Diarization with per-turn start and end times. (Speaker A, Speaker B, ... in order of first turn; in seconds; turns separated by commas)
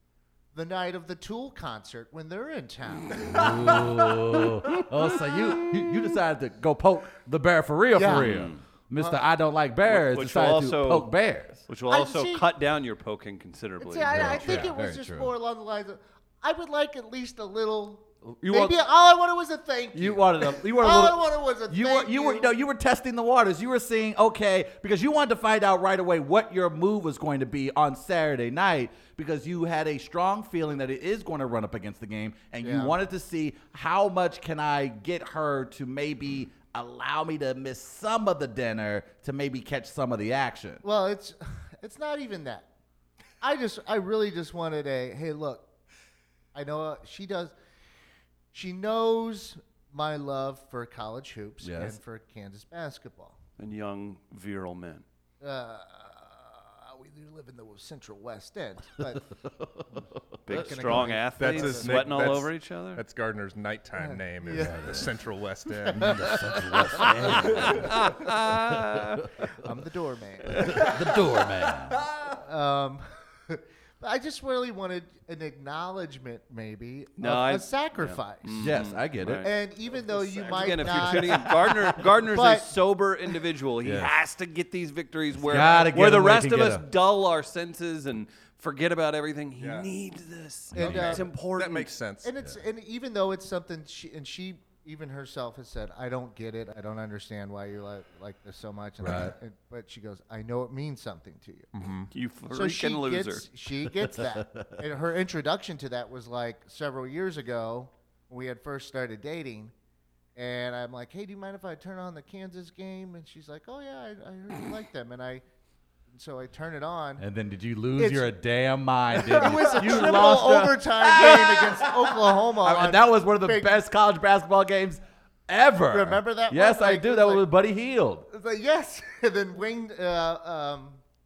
Speaker A: 0.5-3.8, Speaker B: 3.1-11.7, Speaker C: 3.4-3.9, Speaker A: 7.9-8.4, Speaker D: 8.1-8.6, Speaker A: 8.9-9.2, Speaker D: 9.8-11.1, Speaker D: 11.7-14.4, Speaker A: 11.9-12.4, Speaker A: 13.8-22.5, Speaker B: 14.1-15.3, Speaker C: 14.3-14.7, Speaker B: 18.2-18.8, Speaker B: 19.9-40.8, Speaker A: 32.6-33.0, Speaker A: 40.8-42.7, Speaker A: 43.4-45.6, Speaker A: 46.5-47.5, Speaker A: 48.5-53.4, Speaker B: 51.6-52.0, Speaker D: 53.6-55.0, Speaker A: 55.4-59.2, Speaker B: 59.1-60.6, Speaker D: 60.5-63.0, Speaker A: 60.5-62.1, Speaker C: 61.4-66.5, Speaker A: 64.0-65.0, Speaker B: 64.5-65.1, Speaker A: 65.8-67.9, Speaker B: 65.9-69.5, Speaker C: 67.0-67.9, Speaker D: 67.5-69.3, Speaker A: 69.4-71.1, Speaker B: 70.5-72.0, Speaker D: 70.5-70.9, Speaker C: 71.9-72.3, Speaker A: 72.3-78.5, Speaker D: 77.2-79.5, Speaker B: 78.5-79.5, Speaker A: 79.4-82.7, Speaker D: 80.1-91.9, Speaker B: 80.9-82.0, Speaker B: 85.4-86.9, Speaker C: 89.6-89.9, Speaker B: 90.7-91.2, Speaker A: 90.7-91.2, Speaker C: 90.8-92.3, Speaker A: 92.2-101.7, Speaker B: 99.0-99.3, Speaker C: 101.7-102.1, Speaker D: 102.1-103.5, Speaker A: 102.5-109.7, Speaker B: 103.8-104.8, Speaker A: 110.3-115.4, Speaker A: 116.1-117.2, Speaker B: 117.2-128.3, Speaker A: 118.0-118.3, Speaker A: 119.2-123.8, Speaker A: 125.9-127.5, Speaker A: 128.3-131.0